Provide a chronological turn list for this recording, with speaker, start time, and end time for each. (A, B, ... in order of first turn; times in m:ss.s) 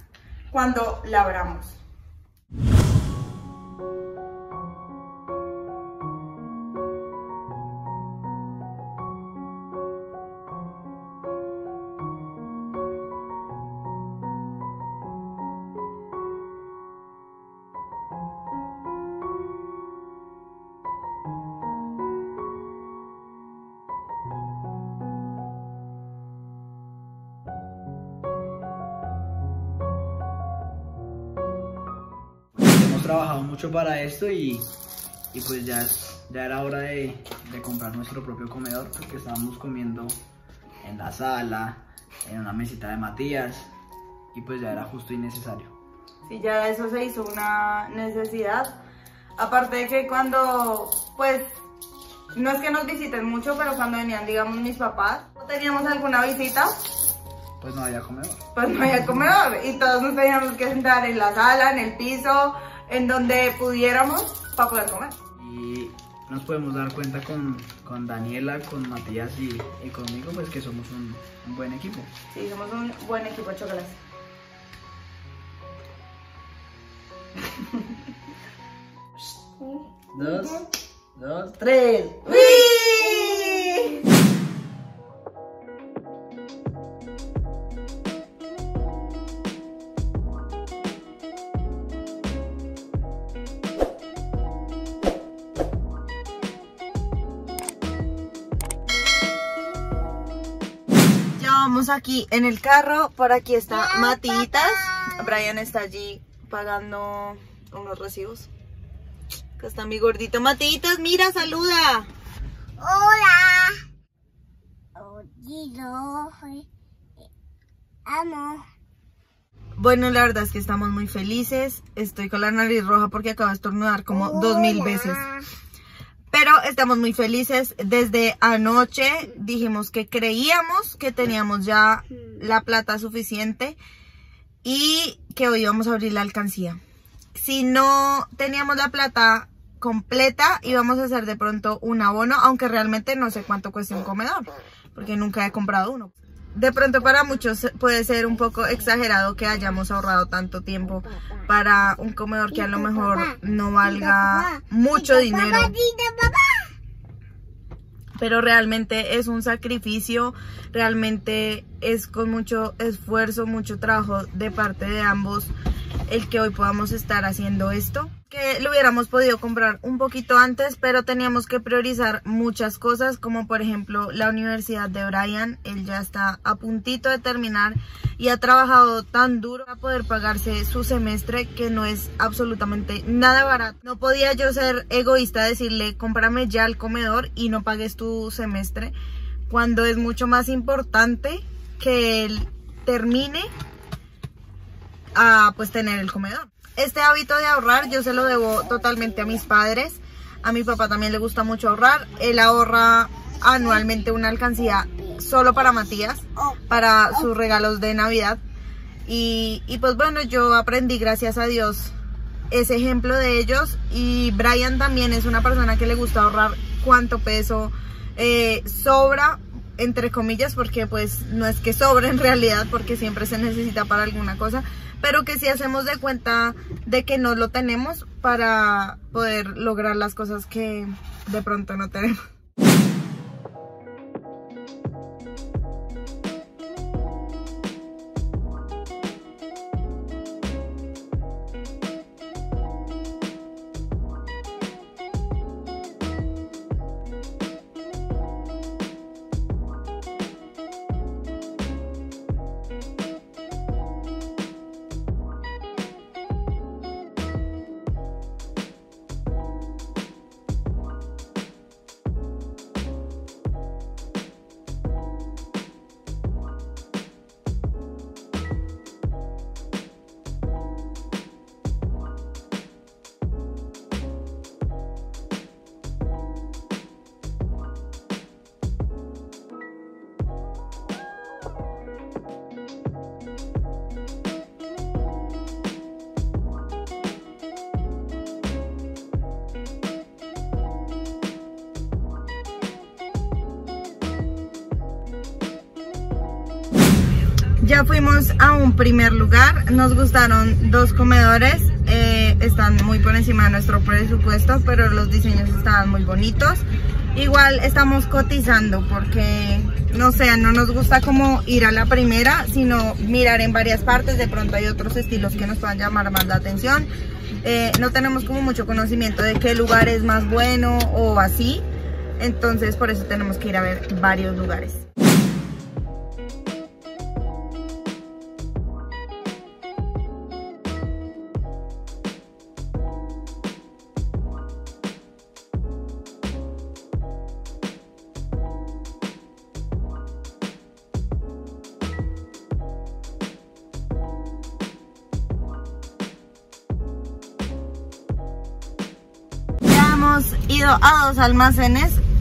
0:00.5-0:01.8 A
0:32.5-0:34.7 B
0:35.3-0:40.2 B
0:40.8-0:43.7 B
0:44.3-0:45.7 B
0:46.2-0:48.8 A
0:49.4-0:51.5 A
0:52.3-0:56.7 A
0:57.6-0:58.4 B
0:58.5-1:05.2 A
1:05.4-1:12.1 B
1:12.3-1:14.0 A
1:20.1-1:20.6 B
1:21.1-1:22.4 B
1:22.2-1:23.9 C
1:22.4-1:23.7 A
1:41.3-1:48.5 A
1:43.9-1:45.1 C
1:49.6-1:52.1 A
1:52.8-1:53.8 C
1:55.0-1:56.6 C
1:58.0-1:58.6 C
1:59.8-2:05.3 A
2:04.2-2:05.4 C
2:06.3-2:13.8 A
2:14.6-2:16.8 A
2:17.3-2:35.8 A
2:33.9-2:36.7 C
2:38.2-2:45.5 A
2:46.1-3:08.9 A
3:09.5-3:13.5 A
3:15.1-3:28.4 A
3:29.0-3:31.9 A
3:32.5-3:52.2 A
4:57.6-5:16.9 A
5:17.4-5:21.6 A
5:22.2-5:24.8 A
5:49.6-5:52.0 A